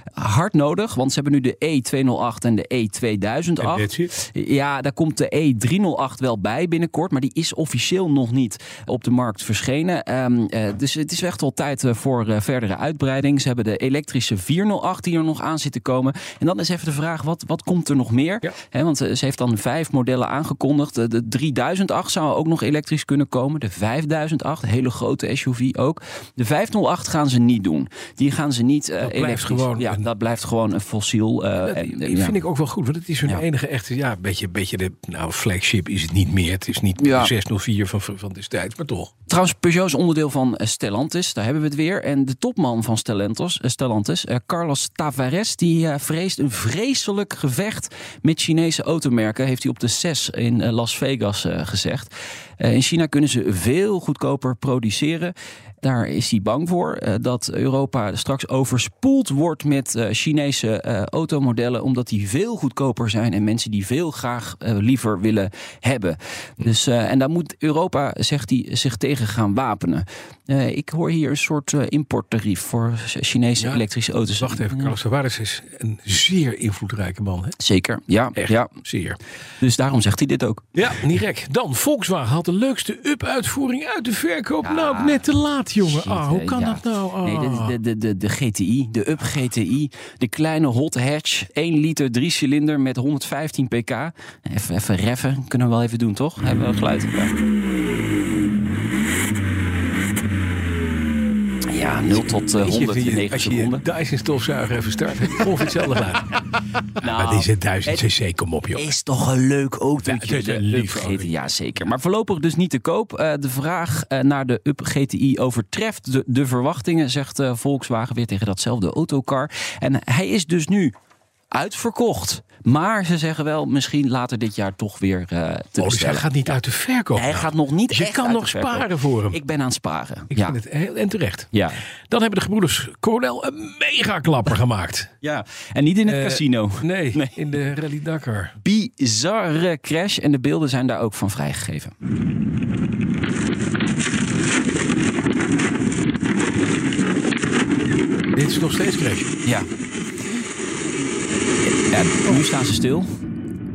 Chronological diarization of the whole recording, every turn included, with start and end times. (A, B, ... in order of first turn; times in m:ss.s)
0:00.2-0:32.4 A
0:03.6-0:04.1 B
0:29.0-0:30.1 B
0:31.6-0:39.1 B
0:37.0-0:37.3 A
0:39.3-1:14.9 A
1:14.4-1:17.6 B
1:17.6-1:18.7 A
1:18.4-1:19.2 B
1:19.6-1:20.6 A
1:20.7-1:27.8 B
1:24.6-1:25.3 A
1:25.9-1:37.3 A
1:41.7-1:43.8 A
1:42.1-1:46.4 B
1:47.0-1:48.0 A
1:47.0-1:48.9 B
1:48.7-2:00.9 A
1:50.0-1:51.3 B
2:01.5-2:06.3 A
2:05.8-2:09.4 B
2:07.2-2:10.6 A
2:10.3-2:11.5 B
2:11.5-2:11.8 A
2:12.1-2:15.1 B
2:15.2-2:17.3 A
2:16.1-2:18.5 B
2:18.6-2:21.9 A
2:28.4-2:29.3 B
2:29.4-2:29.7 A
2:31.6-2:33.1 A